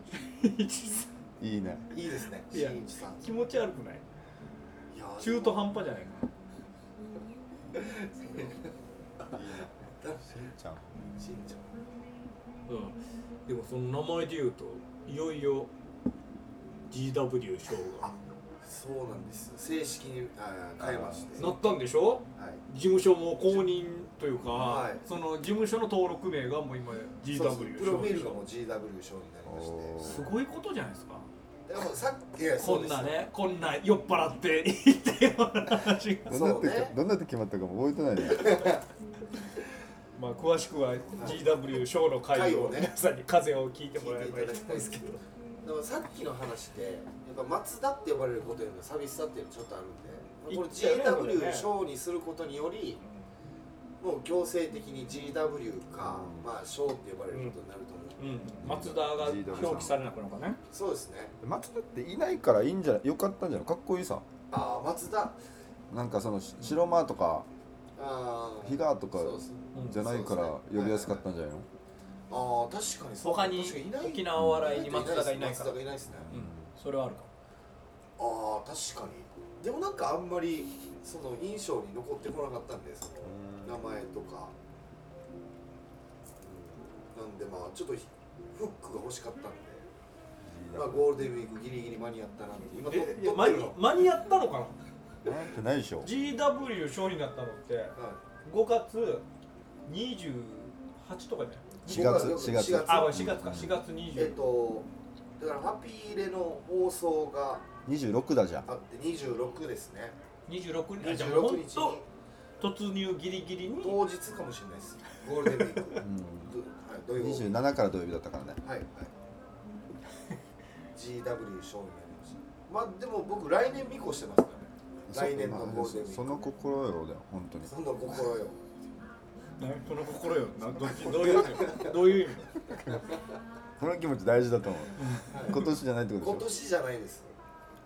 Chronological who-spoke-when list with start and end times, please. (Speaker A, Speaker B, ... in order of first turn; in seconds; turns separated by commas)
Speaker A: 0.1-1.1, Speaker B: 1.4-1.9, Speaker C: 1.9-3.2, Speaker A: 2.5-4.0, Speaker C: 4.9-5.7, Speaker A: 5.2-6.3, Speaker C: 7.7-8.7, Speaker B: 9.3-10.9, Speaker C: 10.0-10.3, Speaker C: 11.2-11.7, Speaker A: 12.7-15.7, Speaker A: 16.9-18.1, Speaker C: 18.6-21.5, Speaker B: 20.8-21.5, Speaker A: 21.4-28.4, Speaker C: 22.4-22.6, Speaker C: 24.5-25.0, Speaker C: 27.3-29.9, Speaker B: 29.4-30.4, Speaker A: 30.0-31.3, Speaker C: 31.7-33.2, Speaker A: 32.6-36.3, Speaker C: 36.2-36.9, Speaker B: 36.3-38.7, Speaker C: 38.3-38.8, Speaker A: 40.1-45.2, Speaker C: 41.2-41.5, Speaker C: 42.3-42.9, Speaker C: 43.9-53.0, Speaker A: 50.5-51.7, Speaker A: 53.0-53.3, Speaker C: 54.0-58.5, Speaker B: 56.0-56.5, Speaker A: 57.3-57.6, Speaker A: 58.2-60.6, Speaker B: 58.6-60.0, Speaker C: 60.7-61.3, Speaker B: 61.4-64.3, Speaker C: 64.5-65.4, Speaker B: 65.9-67.5, Speaker C: 68.0-71.2, Speaker B: 68.6-71.7, Speaker A: 69.7-70.0, Speaker C: 72.3-76.3, Speaker A: 73.2-77.3, Speaker B: 74.3-74.8, Speaker B: 76.2-76.7, Speaker C: 78.2-84.5, Speaker B: 83.2-83.8, Speaker C: 86.4-89.8, Speaker B: 90.4-91.1, Speaker C: 90.7-93.8, Speaker A: 92.8-94.8, Speaker B: 95.2-96.1, Speaker A: 96.0-99.2, Speaker C: 97.9-98.2, Speaker A: 99.8-104.4, Speaker C: 101.8-103.2, Speaker B: 101.9-103.8, Speaker C: 104.1-107.7, Speaker B: 107.8-108.7, Speaker C: 108.7-110.2, Speaker A: 110.5-112.0, Speaker C: 111.0-112.1, Speaker A: 112.6-114.0, Speaker C: 113.8-117.6, Speaker B: 116.0-116.5, Speaker B: 117.2-118.6, Speaker C: 118.6-119.1, Speaker C: 120.9-126.4, Speaker B: 125.1-127.7, Speaker C: 127.7-128.6, Speaker A: 129.6-132.6, Speaker C: 130.8-132.0, Speaker B: 133.8-136.5, Speaker A: 135.0-135.7, Speaker C: 135.3-135.7, Speaker C: 136.2-137.3